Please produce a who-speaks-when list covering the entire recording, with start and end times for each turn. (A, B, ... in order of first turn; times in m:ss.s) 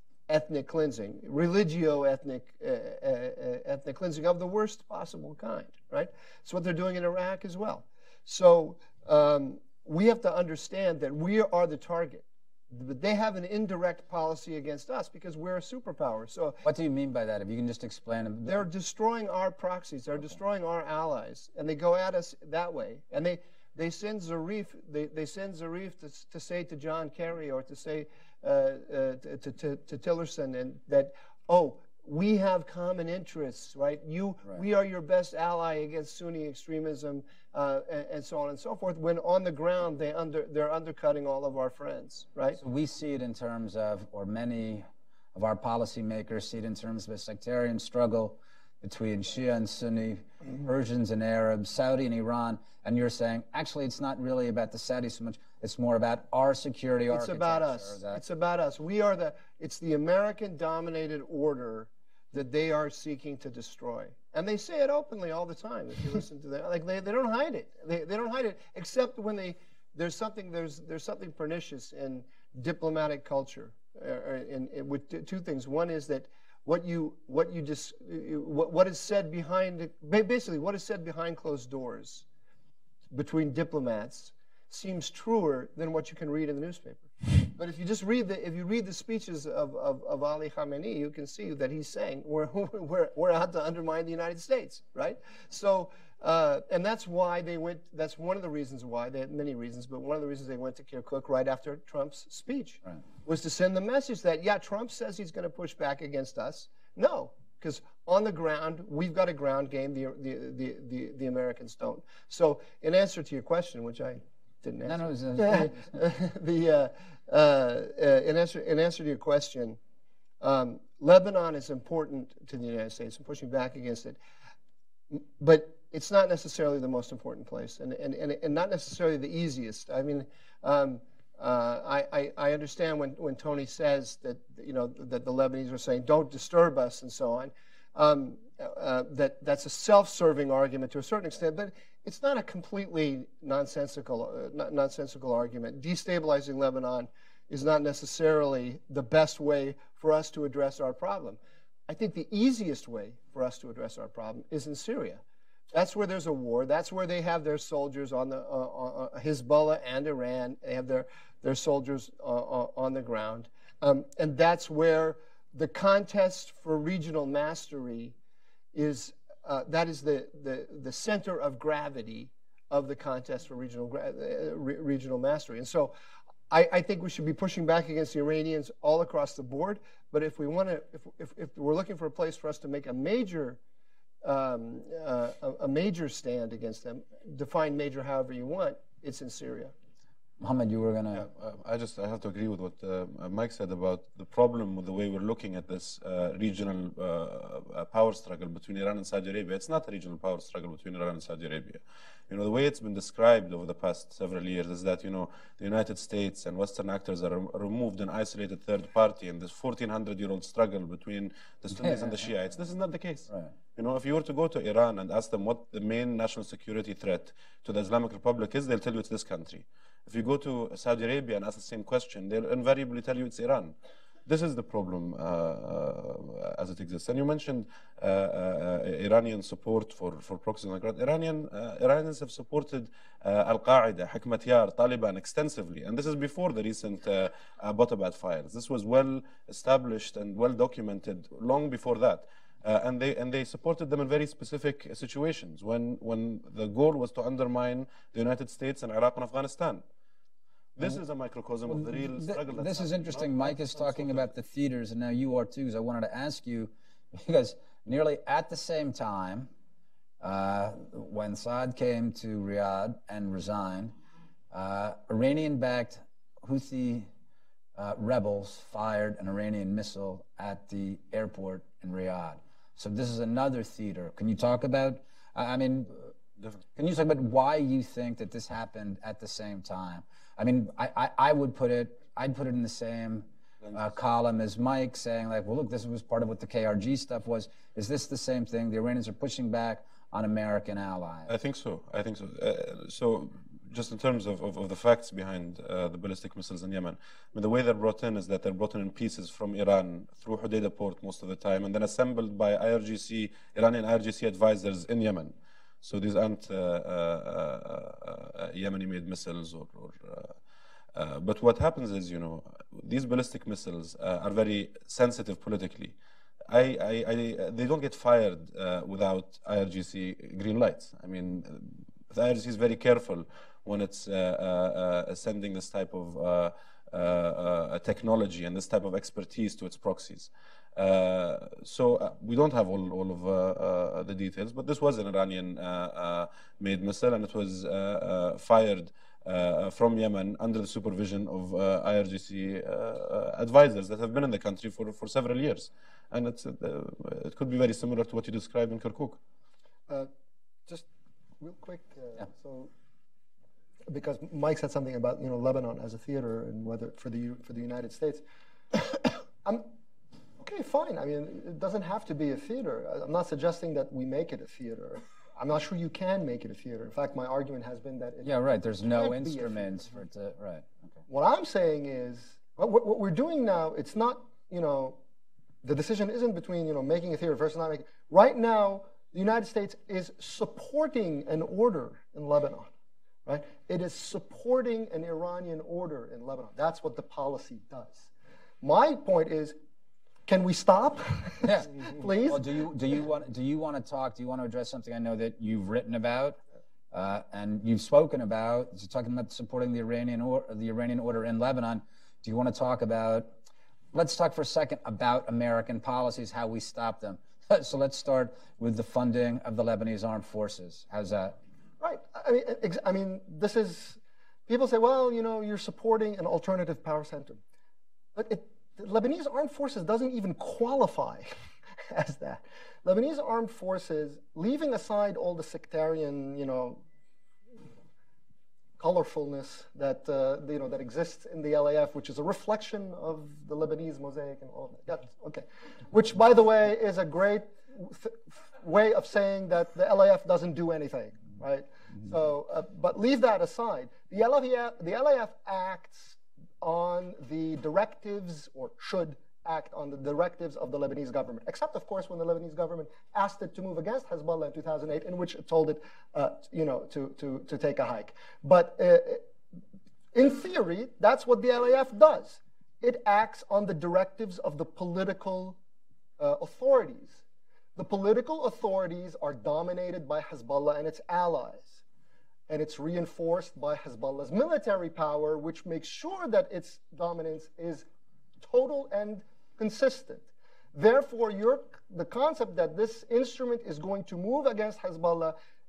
0:00.3-0:16.6 A
0:16.6-0:18.6 B
0:18.4-0:42.6 A
0:42.6-0:58.2 B
0:57.1-1:22.2 A
1:23.1-1:59.8 A
1:54.8-1:55.9 B
2:00.4-2:04.2 A
2:05.1-2:35.2 A
2:35.7-2:48.1 A
2:48.7-2:55.9 A
2:56.5-3:03.6 A
3:04.2-3:09.7 A
3:10.4-3:11.3 B
3:11.1-3:43.7 C
3:31.7-3:32.3 B
3:44.2-4:09.8 C
4:10.8-4:14.3 C
4:11.7-4:19.5 B
4:20.2-4:24.0 B
4:24.5-4:27.1 B
4:27.8-4:36.1 B
4:36.8-4:51.3 B
4:51.3-5:10.4 C
5:10.9-5:16.0 C
5:16.5-5:49.2 C
5:51.4-5:52.7 D
5:53.9-5:58.2 D
5:58.7-5:59.7 D
6:00.4-6:10.0 D
6:08.2-6:10.8 B
6:11.1-6:15.0 D
6:15.6-6:22.7 D
6:23.2-6:28.1 D
6:28.6-6:29.6 D
6:30.3-6:32.5 D
6:31.4-6:36.4 B
6:36.9-6:43.3 B
6:43.9-6:51.4 B
6:51.8-6:57.4 D
6:58.1-7:01.3 D
7:01.9-7:06.8 D
7:08.8-7:39.3 D
7:40.1-7:45.6 D
7:46.2-7:47.2 D
7:47.8-7:51.8 D
7:52.5-7:57.8 D
7:58.4-8:05.3 D